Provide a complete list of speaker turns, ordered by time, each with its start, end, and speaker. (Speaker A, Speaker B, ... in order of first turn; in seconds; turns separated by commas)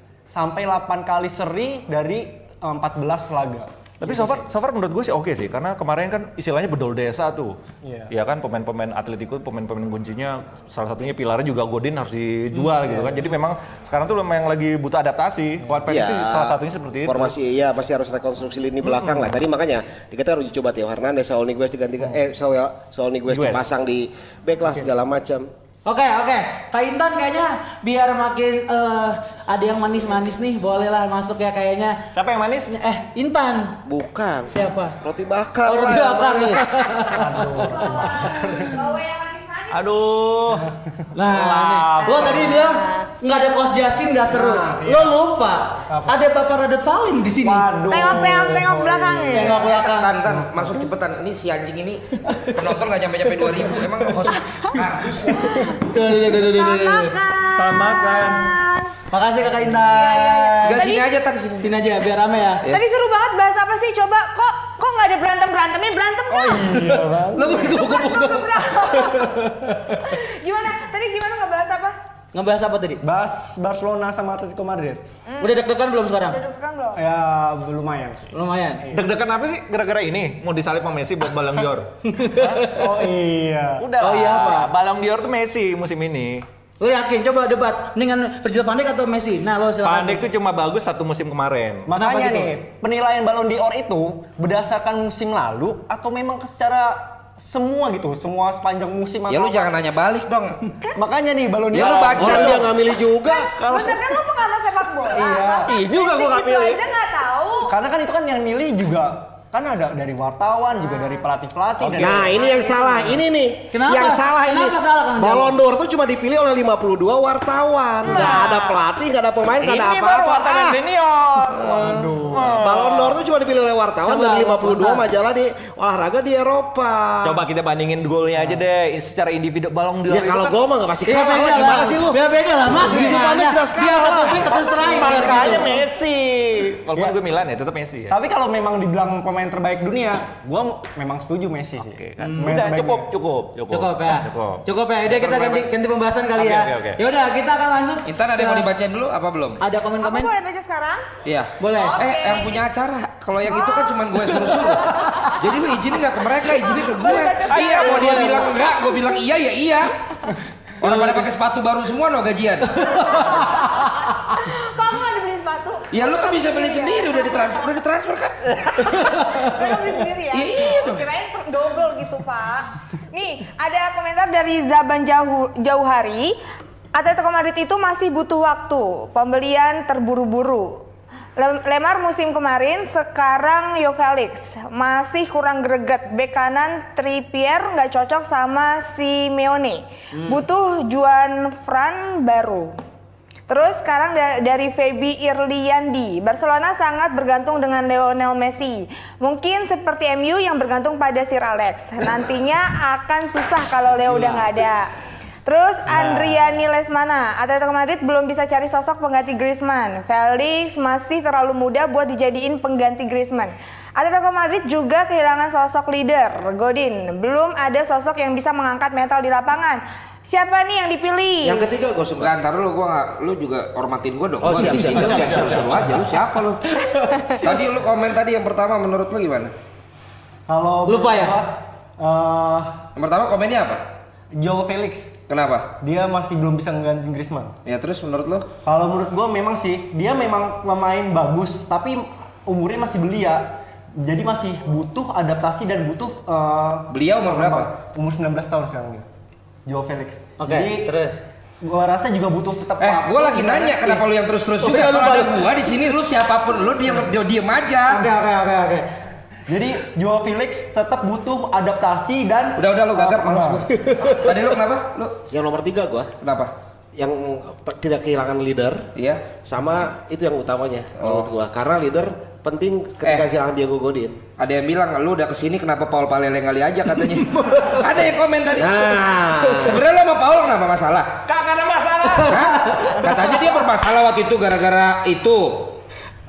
Speaker A: 0.3-4.4, Speaker B: 4.0-7.6, Speaker A: 7.8-8.1, Speaker B: 8.1-17.4, Speaker C: 12.5-13.1, Speaker D: 15.9-25.5, Speaker B: 18.8-19.4, Speaker B: 23.3-23.6, Speaker C: 25.9-32.1, Speaker B: 32.1-32.7, Speaker C: 32.7-33.8, Speaker D: 33.9-36.7, Speaker C: 34.5-35.0, Speaker C: 35.6-37.8, Speaker A: 37.1-38.9, Speaker E: 37.7-40.3, Speaker B: 39.7-40.7, Speaker A: 40.6-40.9, Speaker C: 41.1-47.7, Speaker B: 41.2-42.6, Speaker E: 42.0-43.1, Speaker A: 44.3-45.2, Speaker A: 45.9-46.2, Speaker A: 47.4-49.5, Speaker E: 47.9-49.7, Speaker C: 49.3-50.1, Speaker F: 49.7-55.6, Speaker A: 50.4-50.7, Speaker E: 54.4-54.8, Speaker E: 55.4-58.9, Speaker C: 55.8-57.2, Speaker B: 57.5-58.5, Speaker C: 59.1-60.9, Speaker E: 59.8-61.1, Speaker F: 60.6-61.7, Speaker C: 61.6-62.6, Speaker E: 62.7-66.8, Speaker A: 66.3-67.8, Speaker C: 67.0-70.2, Speaker E: 67.6-72.0, Speaker C: 72.3-73.0, Speaker A: 73.0-75.0, Speaker E: 75.3-75.5, Speaker C: 75.4-76.4, Speaker E: 76.3-77.0, Speaker A: 77.0-79.1, Speaker C: 78.3-78.8, Speaker B: 78.9-82.8, Speaker C: 82.0-82.9, Speaker A: 82.7-83.9, Speaker B: 83.8-86.5, Speaker C: 84.0-84.7, Speaker C: 86.8-90.3, Speaker B: 89.8-91.9, Speaker A: 91.9-99.7, Speaker C: 91.9-92.5, Speaker F: 99.3-100.6, Speaker A: 101.0-102.7, Speaker F: 101.7-102.7, Speaker D: 102.2-103.5, Speaker E: 103.0-107.7, Speaker B: 103.6-104.0, Speaker A: 105.0-105.8, Speaker B: 105.7-106.8, Speaker A: 107.7-113.0, Speaker E: 110.9-111.2, Speaker B: 111.8-112.5, Speaker D: 112.0-120.8, Speaker C: 113.7-115.6, Speaker B: 118.1-118.7, Speaker A: 118.1-118.5, Speaker B: 119.6-123.2, Speaker D: 121.5-127.4, Speaker A: 121.6-122.5, Speaker C: 124.0-125.1, Speaker B: 127.2-130.6, Speaker A: 128.4-128.6, Speaker D: 130.1-134.7, Speaker C: 131.1-135.7, Speaker B: 134.8-138.2, Speaker A: 135.2-135.8, Speaker A: 138.1-143.1, Speaker B: 141.8-145.7, Speaker C: 142.2-142.6, Speaker C: 143.7-148.7, Speaker B: 146.3-147.0, Speaker F: 148.1-149.6, Speaker C: 149.6-150.3, Speaker E: 150.0-151.1, Speaker F: 151.2-159.9, Speaker C: 151.6-152.0, Speaker E: 151.8-152.6, Speaker E: 153.5-155.5, Speaker C: 155.0-155.3, Speaker E: 156.4-159.2, Speaker B: 157.5-158.2, Speaker C: 157.9-158.2, Speaker F: 160.8-162.9, Speaker E: 162.8-167.7, Speaker C: 162.9-163.8, Speaker F: 165.9-168.8, Speaker E: 168.7-176.3, Speaker C: 169.0-169.5, Speaker F: 170.3-171.1, Speaker E: 176.9-180.8, Speaker E: 181.4-192.7, Speaker C: 190.1-190.4, Speaker E: 193.5-204.9, Speaker E: 205.5-221.7, Speaker B: 205.9-206.3, Speaker D: 221.4-222.3, Speaker F: 222.2-226.8, Speaker D: 224.4-226.2, Speaker B: 224.6-226.2, Speaker C: 226.7-227.4, Speaker F: 227.3-229.5, Speaker A: 230.5-232.8, Speaker C: 230.9-231.4, Speaker F: 233.0-233.8, Speaker A: 234.3-235.2, Speaker F: 235.3-235.7, Speaker A: 235.8-237.6, Speaker F: 237.7-238.5, Speaker A: 238.6-249.1, Speaker F: 246.9-247.7, Speaker A: 249.7-250.9, Speaker C: 250.4-251.2, Speaker A: 251.6-254.0, Speaker F: 252.8-258.1, Speaker C: 254.6-255.3, Speaker C: 257.9-258.9, Speaker A: 259.5-263.9, Speaker F: 262.6-265.2, Speaker D: 265.3-266.1, Speaker F: 266.2-266.5, Speaker D: 267.0-274.2, Speaker F: 269.0-269.3, Speaker F: 271.0-271.3, Speaker F: 274.4-278.9, Speaker D: 278.6-279.8, Speaker F: 279.5-281.3, Speaker B: 281.3-283.1, Speaker F: 282.2-285.7, Speaker C: 282.6-283.0